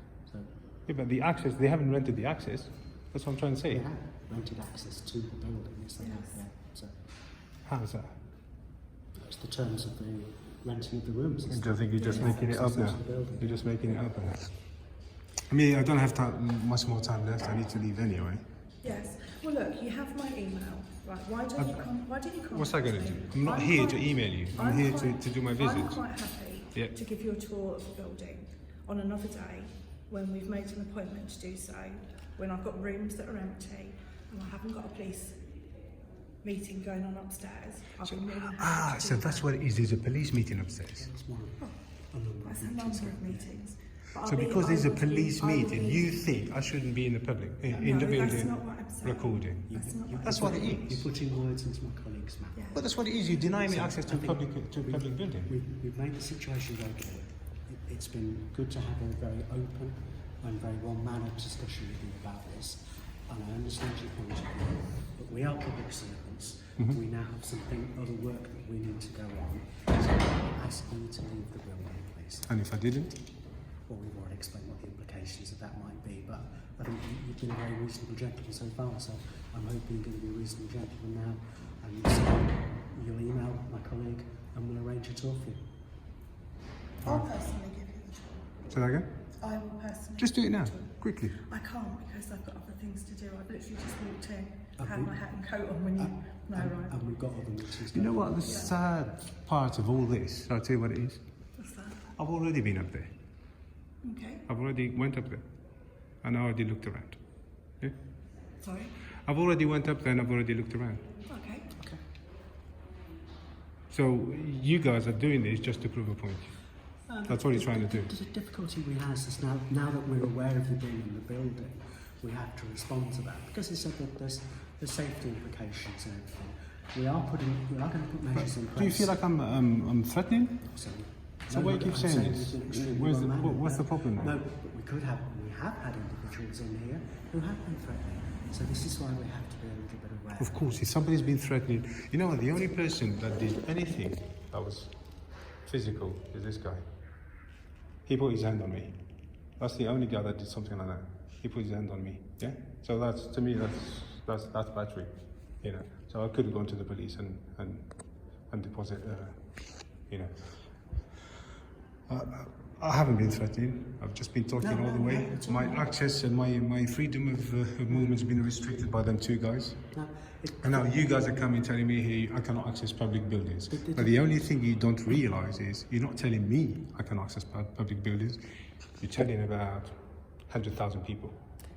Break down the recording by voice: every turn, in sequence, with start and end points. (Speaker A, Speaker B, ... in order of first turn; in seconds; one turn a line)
Speaker A: 0.9-3.9
Speaker B: 3.7-6.9
Speaker C: 6.0-6.4
Speaker A: 7.7-8.1
Speaker B: 9.2-13.7
Speaker A: 11.5-14.5
Speaker C: 12.0-12.4
Speaker A: 15.5-18.4
Speaker C: 18.8-35.4
Speaker A: 21.6-21.9
Speaker A: 22.5-26.0
Speaker C: 36.4-39.5
Speaker A: 38.1-41.1
Speaker B: 40.9-43.5
Speaker C: 42.5-46.2
Speaker A: 44.2-51.1
Speaker B: 47.7-48.2
Speaker C: 47.8-50.7
Speaker B: 49.7-52.8
Speaker C: 52.5-52.8
Speaker A: 52.7-55.5
Speaker B: 53.6-72.5
Speaker A: 72.5-73.2
Speaker B: 73.9-85.6
Speaker C: 87.0-88.5
Speaker A: 88.7-89.1
Speaker C: 89.4-97.0
Speaker A: 90.2-91.4
Speaker B: 94.8-95.2
Speaker B: 96.0-98.7
Speaker A: 97.9-101.2
Speaker C: 98.4-98.8
Speaker C: 101.6-102.1
Speaker A: 102.2-103.1
Speaker C: 104.0-104.4
Speaker A: 104.5-105.5
Speaker A: 106.2-107.2
Speaker C: 108.6-108.9
Speaker A: 109.3-111.0
Speaker C: 111.3-111.7
Speaker B: 111.8-112.0
Speaker A: 113.9-116.5
Speaker B: 117.1-129.2
Speaker A: 117.3-118.1
Speaker A: 128.4-130.6
Speaker B: 130.6-140.9
Speaker A: 131.5-134.4
Speaker A: 140.4-144.9
Speaker A: 145.7-146.8
Speaker A: 148.1-149.0
Speaker A: 149.6-155.1
Speaker A: 155.6-157.9
Speaker A: 158.5-159.4
Speaker A: 162.1-169.8
Speaker B: 164.6-165.9
Speaker B: 167.9-168.2
Speaker B: 169.9-171.3
Speaker A: 170.6-178.4
Speaker B: 173.7-174.2
Speaker A: 179.0-180.0
Speaker A: 180.5-181.4